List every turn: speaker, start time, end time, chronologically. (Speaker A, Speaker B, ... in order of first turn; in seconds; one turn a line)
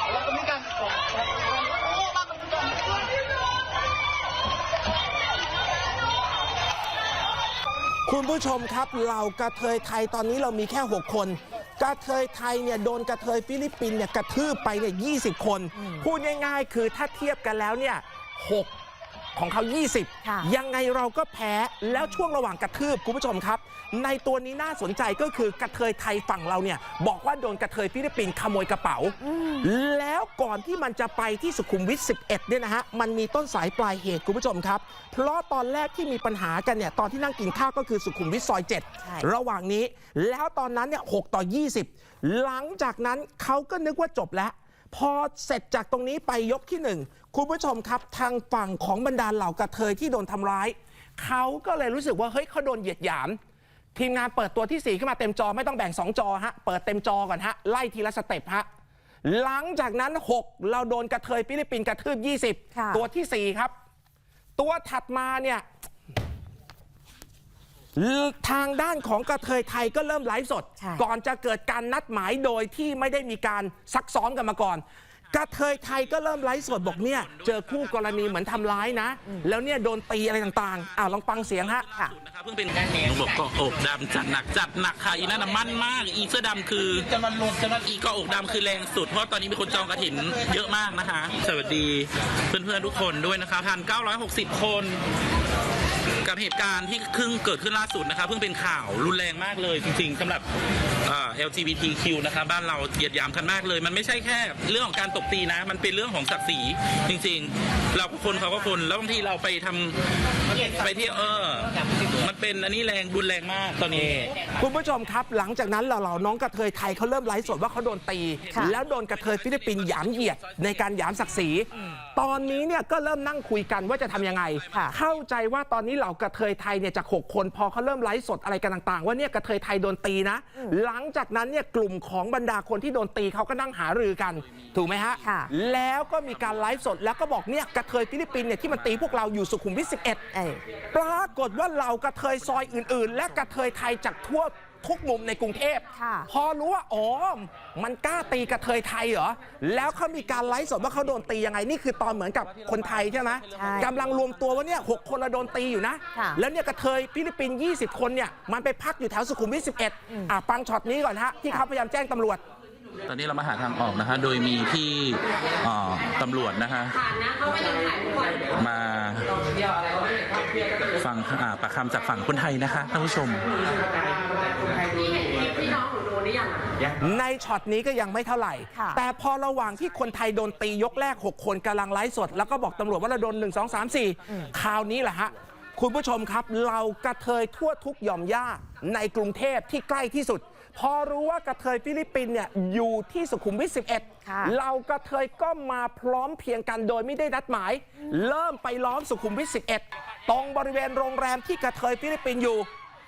Speaker A: 8.1-18.7
Speaker B: 15.8-16.1
Speaker A: 19.4-53.4
Speaker B: 20.2-20.5
Speaker B: 29.2-29.7
Speaker A: 53.9-58.7
Speaker A: 59.2-63.7
Speaker B: 62.7-63.0
Speaker A: 64.6-65.6
Speaker A: 68.0-81.8
Speaker C: 76.9-77.6
Speaker C: 82.0-95.0
Speaker C: 96.2-100.5
Speaker C: 101.0-110.0
Speaker C: 110.6-114.3
Speaker A: 113.9-140.2
Speaker B: 135.2-135.5
Speaker B: 140.3-140.6
Speaker A: 140.9-162.4
Speaker B: 145.9-146.3
Speaker B: 153.5-153.9
Speaker B: 156.1-156.4
Speaker C: 163.1-169.3
Speaker C: 170.9-173.5
Speaker A: 177.0-202.7
Speaker B: 194.2-194.5